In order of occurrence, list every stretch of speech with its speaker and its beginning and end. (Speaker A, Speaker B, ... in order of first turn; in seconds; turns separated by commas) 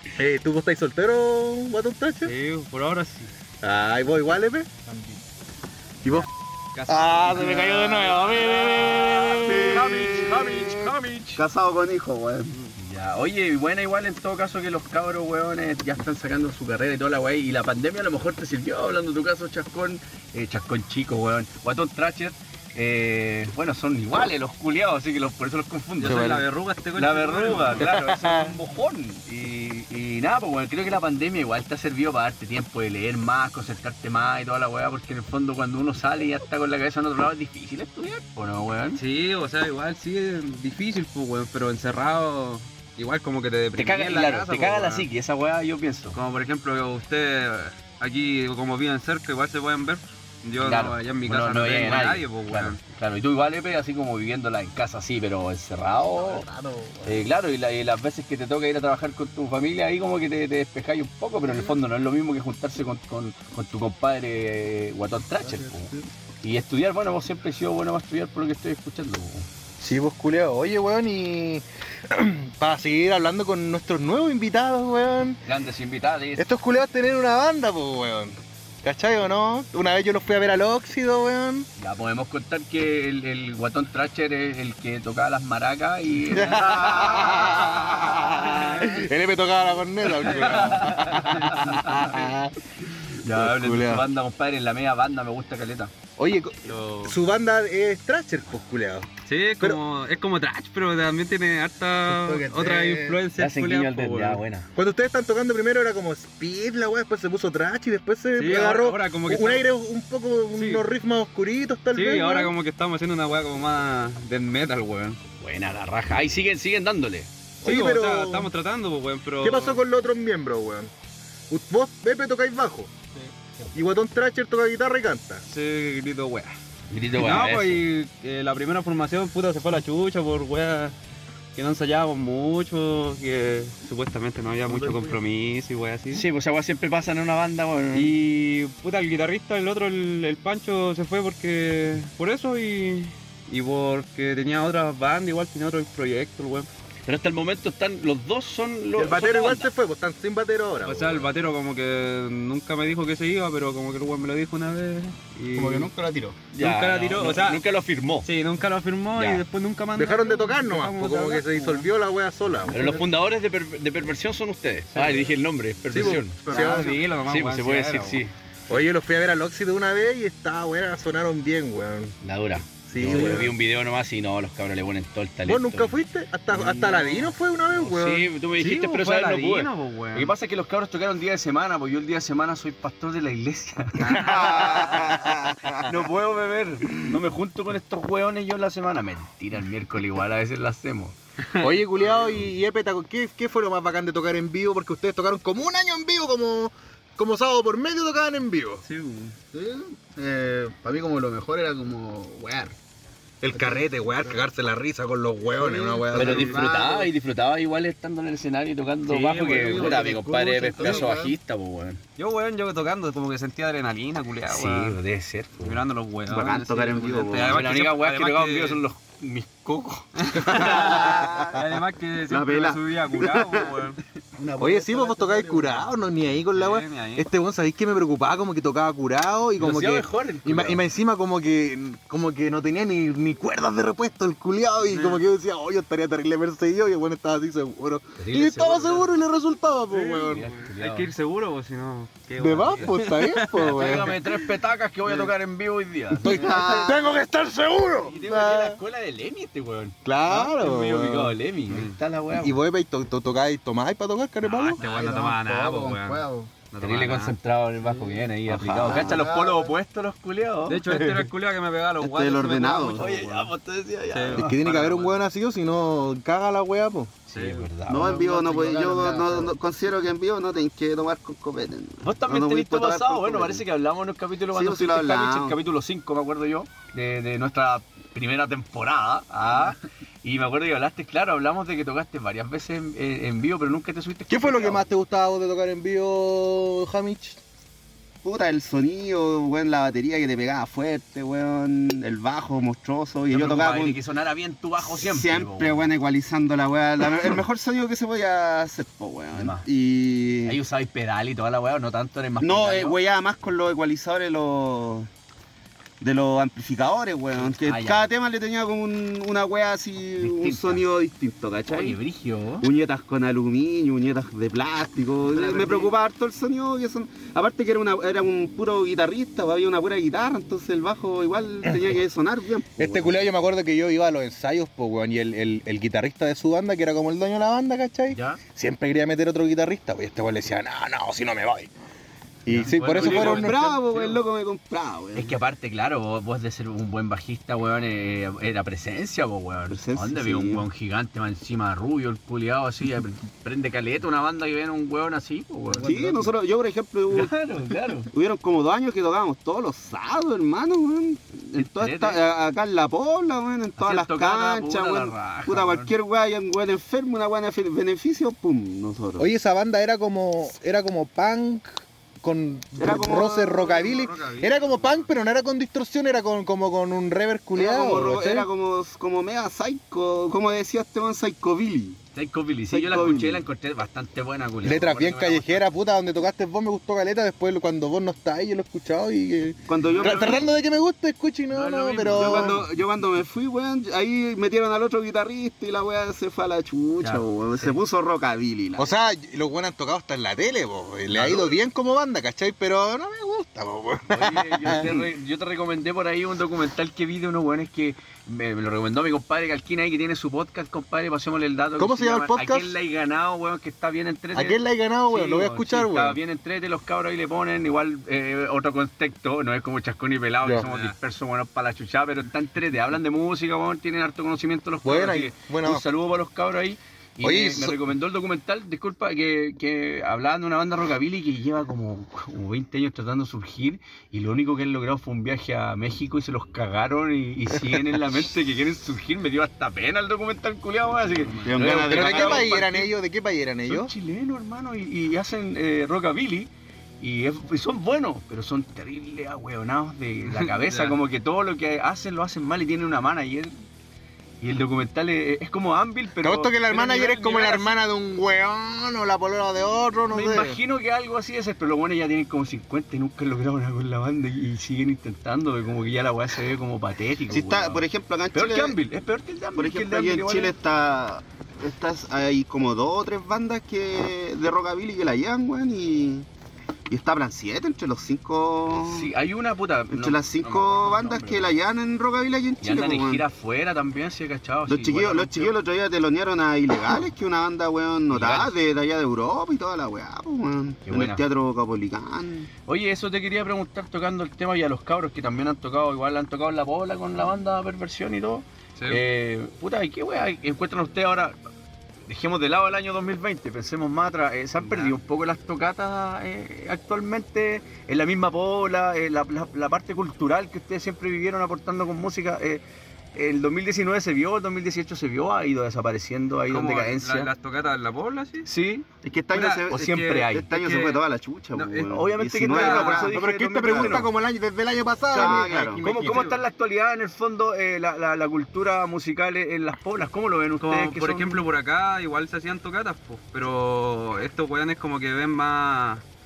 Speaker A: 0.1-2.3, Speaker B: 2.2-3.3, Speaker A: 3.6-4.7, Speaker C: 4.8-5.2, Speaker B: 6.7-11.4, Speaker A: 6.9-9.9, Speaker D: 9.4-10.9, Speaker E: 9.4-12.6, Speaker D: 12.8-26.4, Speaker B: 26.0-27.9, Speaker A: 26.0-26.4, Speaker D: 26.9-39.0, Speaker A: 27.8-28.6, Speaker B: 38.9-45.1, Speaker D: 43.7-46.2, Speaker B: 46.1-52.8, Speaker D: 50.6-56.5, Speaker C: 56.0-57.3, Speaker D: 57.0-69.5, Speaker C: 61.4-61.8, Speaker C: 65.4-66.0, Speaker A: 69.8-75.4, Speaker D: 75.4-76.4, Speaker A: 76.4-81.7, Speaker D: 81.8-87.5, Speaker A: 86.2-92.5, Speaker E: 86.6-87.4, Speaker D: 90.2-92.1, Speaker B: 90.2-91.3, Speaker D: 93.2-95.9, Speaker A: 93.2-94.0, Speaker A: 96.2-99.1, Speaker B: 96.7-97.1, Speaker B: 99.2-104.4, Speaker C: 102.0-103.2, Speaker D: 103.4-104.7, Speaker A: 104.7-112.5, Speaker B: 108.3-109.7, Speaker B: 110.5-110.8, Speaker B: 111.9-115.2, Speaker D: 115.4-117.3, Speaker A: 117.6-118.5, Speaker B: 117.6-119.8, Speaker A: 119.4-120.9, Speaker A: 121.5-122.9, Speaker A: 123.7-125.4, Speaker B: 125.5-126.5, Speaker D: 126.9-127.8, Speaker B: 127.2-130.9, Speaker B: 131.5-136.3, Speaker D: 136.1-138.1, Speaker B: 137.9-146.7, Speaker D: 147.1-149.7, Speaker A: 148.9-151.3, Speaker B: 150.8-155.9, Speaker C: 155.5-156.4, Speaker D: 156.5-158.3, Speaker B: 156.6-157.6, Speaker B: 158.2-161.9, Speaker D: 159.2-159.4, Speaker A: 159.9-162.9, Speaker D: 162.7-168.3, Speaker B: 164.9-165.3, Speaker A: 165.9-167.0, Speaker B: 165.9-168.2, Speaker A: 168.7-172.2, Speaker D: 172.2-175.9, Speaker A: 172.8-173.5, Speaker B: 173.1-173.4, Speaker A: 175.4-178.3, Speaker D: 176.5-184.8, Speaker B: 178.6-180.3, Speaker A: 184.0-185.8, Speaker E: 184.1-185.9, Speaker D: 185.8-191.2, Speaker B: 191.5-192.4, Speaker A: 191.6-198.8, Speaker B: 198.8-199.3, Speaker C: 199.5-202.8, Speaker A: 203.4-206.6, Speaker C: 203.5-204.3, Speaker C: 205.6-207.1, Speaker D: 206.1-212.0, Speaker B: 206.2-206.6, Speaker B: 209.1-210.1, Speaker C: 209.4-211.3, Speaker B: 212.2-215.0, Speaker D: 214.5-215.8, Speaker B: 215.6-218.8, Speaker E: 216.3-217.6, Speaker D: 217.4-220.1, Speaker B: 220.2-224.0, Speaker E: 220.4-221.6, Speaker E: 222.2-223.7, Speaker C: 224.4-225.9, Speaker A: 224.6-240.4, Speaker B: 226.5-227.2, Speaker D: 229.6-230.8, Speaker B: 234.9-235.2, Speaker D: 238.2-239.1, Speaker B: 239.9-244.2, Speaker D: 240.3-241.1, Speaker A: 242.4-244.2, Speaker D: 243.6-246.5, Speaker A: 246.2-248.8, Speaker E: 246.2-247.1, Speaker D: 248.0-252.6, Speaker A: 250.0-251.4, Speaker B: 251.7-252.0, Speaker A: 252.3-254.8, Speaker B: 254.4-257.4, Speaker C: 254.8-256.5, Speaker D: 256.8-261.2, Speaker C: 257.8-258.2, Speaker E: 258.5-259.4, Speaker C: 258.9-259.7, Speaker B: 260.7-263.1, Speaker E: 262.0-263.5, Speaker D: 262.9-264.7, Speaker B: 264.1-265.1, Speaker A: 264.3-267.2, Speaker D: 267.3-268.1, Speaker B: 267.3-267.7, Speaker E: 267.9-273.6, Speaker C: 267.9-269.5, Speaker D: 272.0-284.9, Speaker E: 274.5-275.6, Speaker A: 284.3-287.4, Speaker E: 288.2-294.0, Speaker D: 293.3-295.9, Speaker E: 294.8-300.6, Speaker D: 299.3-299.6, Speaker D: 300.4-303.0, Speaker E: 302.4-305.1, Speaker E: 306.0-312.0, Speaker D: 307.4-308.1, Speaker D: 310.2-310.9, Speaker D: 311.7-312.7, Speaker E: 312.6-323.2, Speaker B: 315.4-315.8, Speaker A: 322.8-331.7, Speaker D: 328.1-328.4, Speaker A: 332.4-333.8, Speaker D: 332.5-334.2, Speaker E: 332.8-335.4, Speaker D: 335.1-346.0, Speaker E: 339.7-340.6, Speaker E: 345.8-347.3, Speaker C: 345.8-346.3, Speaker D: 347.1-348.1, Speaker E: 348.1-359.3, Speaker D: 351.6-352.2, Speaker D: 353.8-355.9, Speaker A: 359.2-368.5, Speaker E: 362.8-363.9, Speaker B: 363.8-365.0, Speaker E: 367.5-372.0, Speaker D: 372.1-375.6, Speaker E: 372.7-373.4, Speaker A: 374.6-382.6, Speaker E: 379.7-380.5, Speaker D: 379.8-380.5, Speaker D: 381.5-382.7, Speaker E: 382.1-388.9, Speaker D: 387.0-387.8, Speaker A: 388.8-395.0, Speaker D: 391.1-391.5, Speaker D: 394.1-432.9, Speaker E: 394.8-395.1, Speaker A: 401.8-402.8, Speaker A: 404.3-406.2, Speaker A: 410.4-410.7, Speaker B: 410.6-410.9, Speaker A: 414.8-415.8, Speaker A: 417.2-417.8, Speaker B: 430.9-431.6, Speaker E: 431.4-432.6, Speaker A: 431.7-433.9, Speaker D: 433.7-436.5, Speaker D: 437.0-443.5, Speaker B: 440.3-441.0, Speaker D: 444.4-447.7, Speaker A: 446.2-450.6, Speaker D: 450.1-460.6, Speaker E: 457.3-458.8, Speaker E: 459.6-466.3, Speaker E: 466.9-469.1, Speaker D: 468.8-471.6, Speaker E: 469.9-473.2, Speaker D: 472.6-475.6, Speaker E: 474.7-482.5, Speaker D: 478.1-478.5, Speaker D: 480.9-481.2, Speaker D: 482.7-491.3, Speaker B: 488.8-489.0, Speaker D: 492.1-502.6, Speaker B: 494.6-494.9, Speaker D: 503.1-507.3, Speaker B: 506.5-508.5, Speaker D: 508.4-508.9, Speaker E: 509.0-514.1, Speaker B: 509.3-511.0, Speaker D: 509.7-510.9, Speaker B: 511.5-513.1, Speaker D: 511.8-514.1, Speaker A: 513.1-516.3, Speaker E: 515.1-516.2, Speaker D: 515.1-521.4, Speaker B: 516.0-516.4, Speaker B: 520.6-526.0